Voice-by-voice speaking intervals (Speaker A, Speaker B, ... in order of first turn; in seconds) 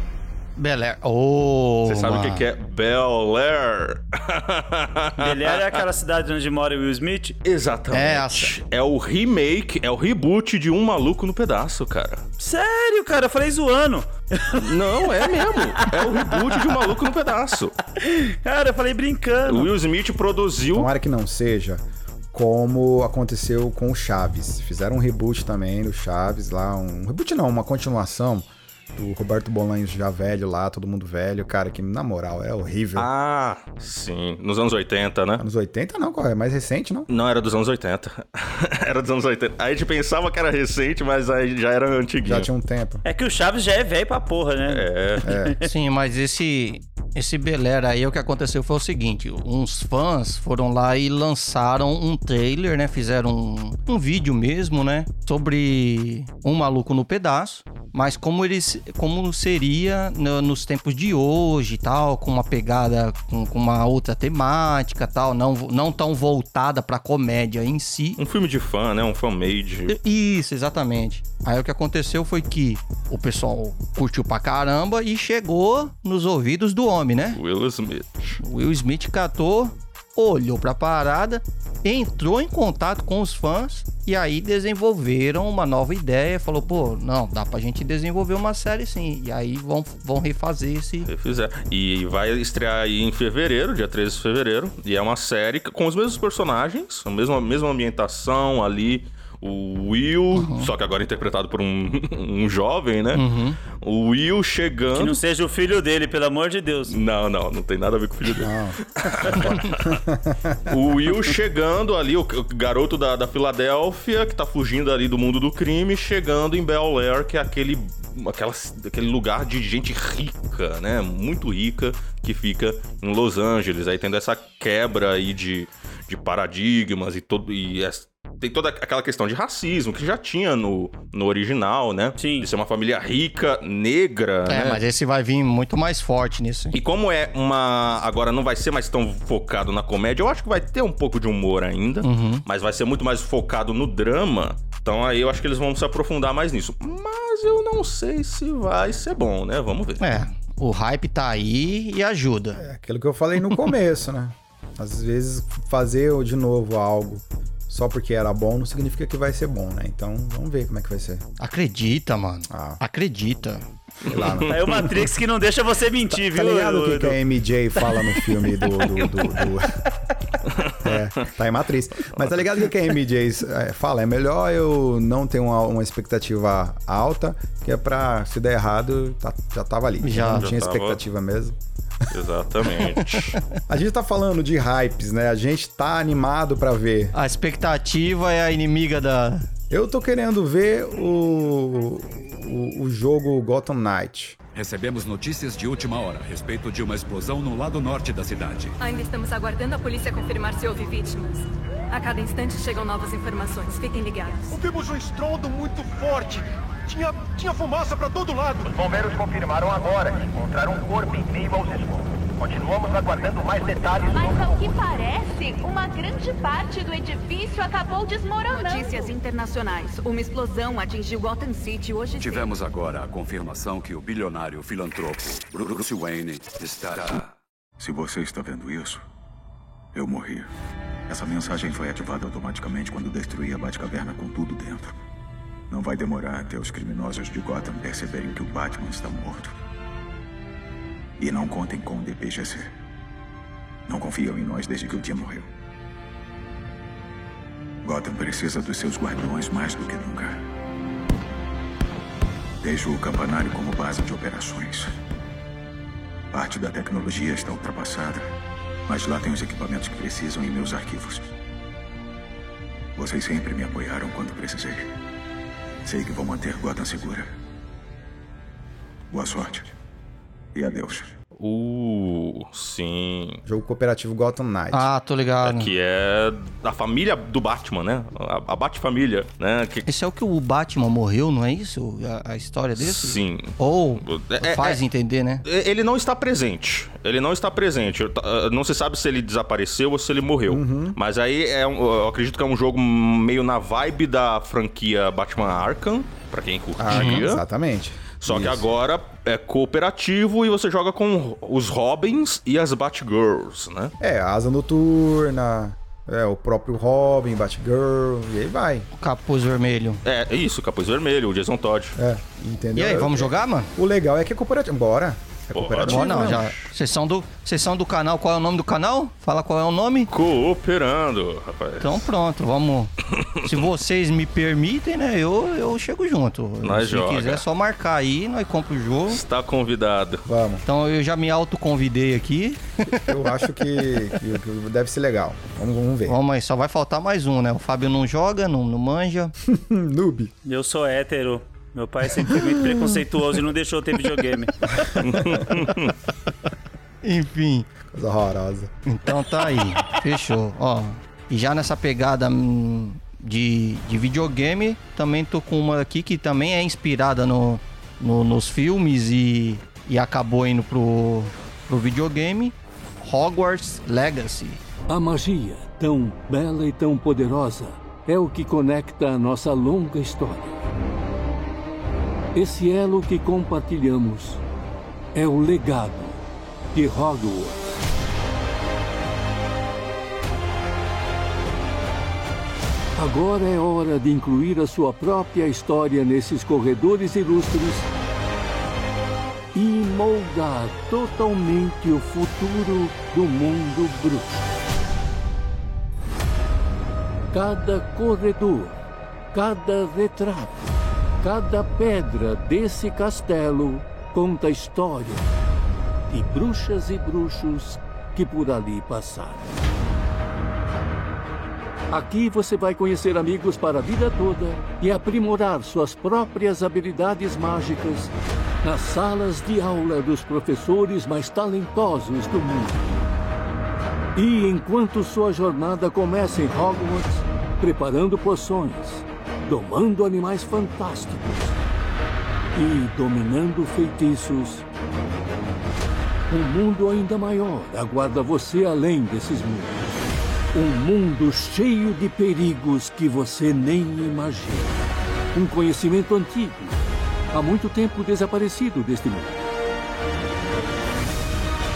Speaker A: 0.6-2.4, 7.9-8.5, 45.6-68.2, 69.9-77.4, 78.4-91.1, 100.3-100.7, 103.1-103.6, 134.5-136.7, 142.0-142.4, 150.0-152.6, 161.4-163.6, 180.0-180.5, 187.1-189.5, 274.7-275.7, 279.9-285.4, 296.9-297.2, 309.0-310.0, 312.8-313.7, 315.9-320.1, 321.8-322.9, 323.4-329.2, 330.6-332.9, 336.1-339.3, 347.0-347.7, 348.9-364.6
Speaker B: 1.9-5.8, 7.4-12.2, 14.6-17.8, 19.4-20.9, 33.0-35.4, 37.1-42.5, 44.6-45.3, 68.2-70.0, 77.3-78.4, 91.0-103.2, 103.8-105.2, 106.9-110.0, 110.7-134.8, 136.7-150.0, 164.1-164.5, 180.3-181.0, 182.1-183.4, 271.4-273.4, 275.4-279.9, 282.8-284.8, 285.4-297.4, 298.2-303.9, 310.0-312.0, 315.5-316.6, 320.1-322.1, 326.6-327.4, 329.1-330.2, 345.0-345.9
Speaker C: 5.2-7.4, 12.4-14.7, 18.0-19.7, 43.0-45.5, 104.9-106.9, 132.2-132.5, 164.5-167.2, 340.4-344.5
Speaker D: 20.7-33.1, 35.4-37.1, 42.2-43.0, 45.2-45.6, 108.2-110.7, 152.6-161.2, 162.5-162.8, 164.0-165.1, 166.1-169.7, 170.8-181.6, 183.7-187.1, 189.7-194.4, 273.4-274.9, 290.5-291.0, 296.8-298.7, 304.0-308.9, 311.9-316.4, 330.2-330.6, 333.0-336.2, 339.4-340.3, 344.9-345.4, 347.9-348.7
Speaker E: 194.5-198.7, 213.0-213.6, 222.2-227.2
Speaker F: 198.8-204.6, 218.5-222.4
Speaker G: 204.5-208.8
Speaker H: 214.1-219.2
Speaker I: 227.8-229.0, 229.9-230.5, 231.1-234.9, 235.7-239.5, 241.2-242.7, 243.9-245.5, 247.8-250.4, 252.6-254.9, 256.3-258.3, 258.9-261.3, 262.9-264.9, 265.8-267.3, 269.1-269.7, 270.5-271.1
Speaker J: 364.9-370.6, 372.3-374.4, 375.1-376.2, 376.7-377.8, 382.9-387.9, 389.5-394.4, 397.3-398.8, 399.3-405.3, 406.1-409.6, 411.9-423.1, 424.1-431.6, 432.5-434.6, 436.3-444.8, 445.3-449.4